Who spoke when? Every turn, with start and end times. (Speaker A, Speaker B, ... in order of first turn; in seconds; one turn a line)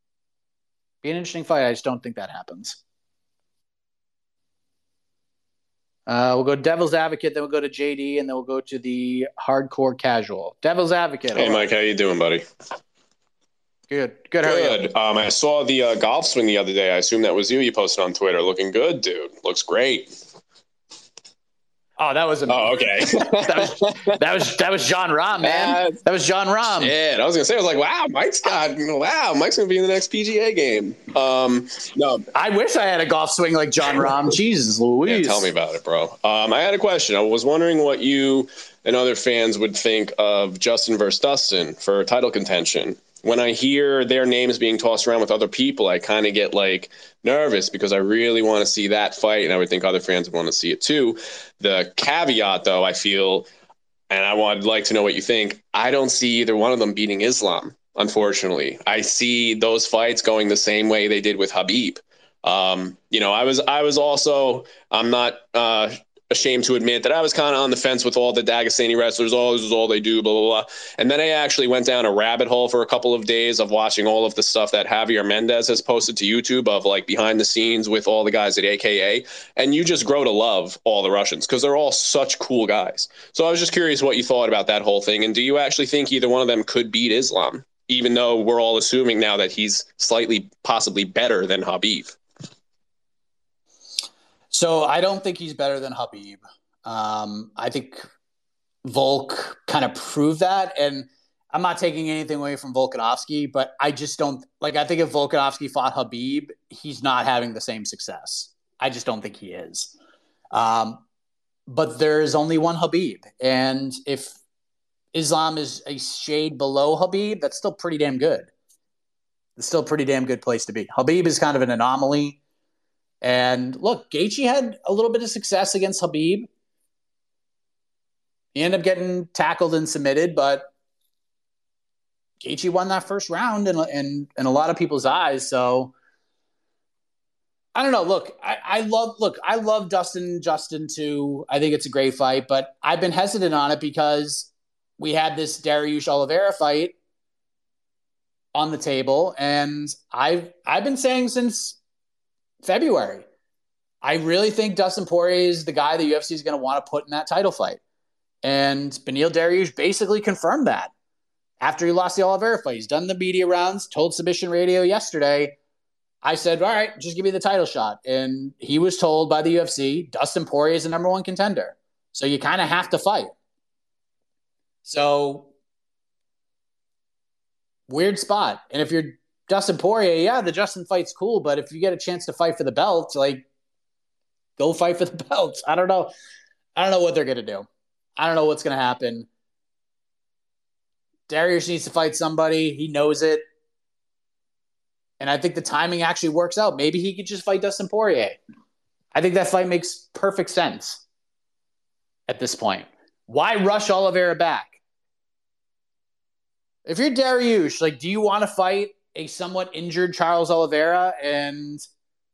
Speaker A: 1.0-2.8
Speaker A: 6.1-11.6
Speaker B: 11.3-12.4
Speaker A: 13.9-14.8
Speaker B: 14.4-20.1
Speaker A: 22.0-26.9
Speaker B: 22.5-24.2
Speaker B: 25.4-26.0
Speaker B: 26.6-32.2
Speaker A: 32.3-35.5
Speaker B: 35.0-53.5
Speaker B: 54.1-92.2
Speaker A: 94.5-98.0
Speaker A: 98.8-109.9
Speaker A: 110.5-111.0
Speaker A: 111.7-114.3
Speaker A: 115.1-118.5
Speaker A: 119.6-122.4
Speaker A: 123.2-126.5
Speaker A: 128.5-130.7
Speaker A: 132.4-135.9
Speaker A: 137.7-146.9
Speaker A: 148.5-151.8
Speaker A: 152.6-153.2
Speaker A: 154.0-157.8
Speaker A: 158.4-160.9
Speaker A: 161.6-165.6
Speaker A: 166.2-173.3
Speaker A: 174.8-175.5
Speaker A: 177.9-183.4
Speaker A: 184.6-186.1
Speaker A: 186.8-187.7
Speaker A: 188.2-189.3
Speaker A: 191.3-193.4
Speaker A: 195.2-198.4
Speaker A: 199.1-201.0
Speaker A: 202.3-204.8
Speaker A: 206.8-211.8